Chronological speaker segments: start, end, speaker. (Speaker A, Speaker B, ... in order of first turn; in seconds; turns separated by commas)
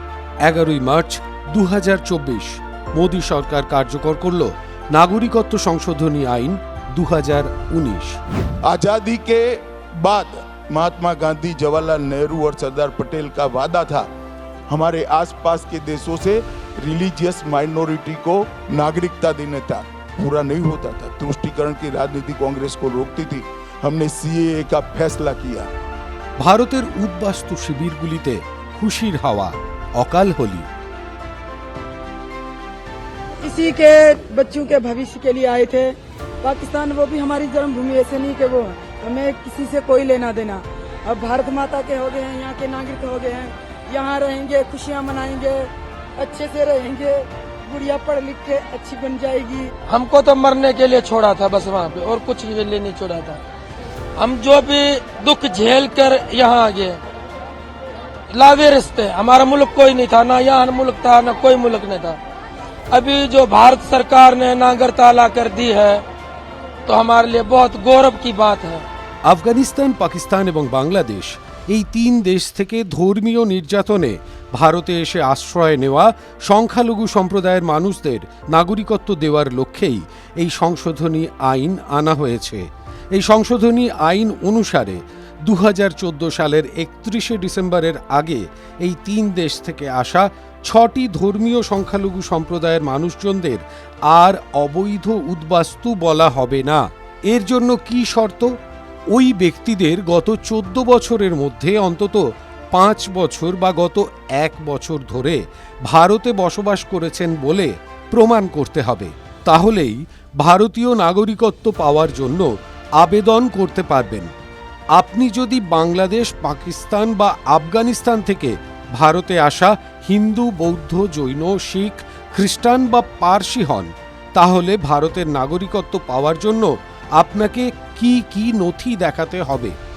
Speaker A: 0.4-8.2, Speaker B: 8.6-14.1, Speaker B: 14.7-25.7, Speaker A: 26.4-30.7, Speaker C: 33.4-49.7, Speaker D: 49.9-53.4, Speaker D: 54.1-57.0, Speaker D: 58.3-62.2, Speaker D: 62.9-66.0, Speaker D: 66.8-68.8, Speaker A: 69.2-98.6, Speaker A: 99.1-114.3, Speaker A: 114.9-129.8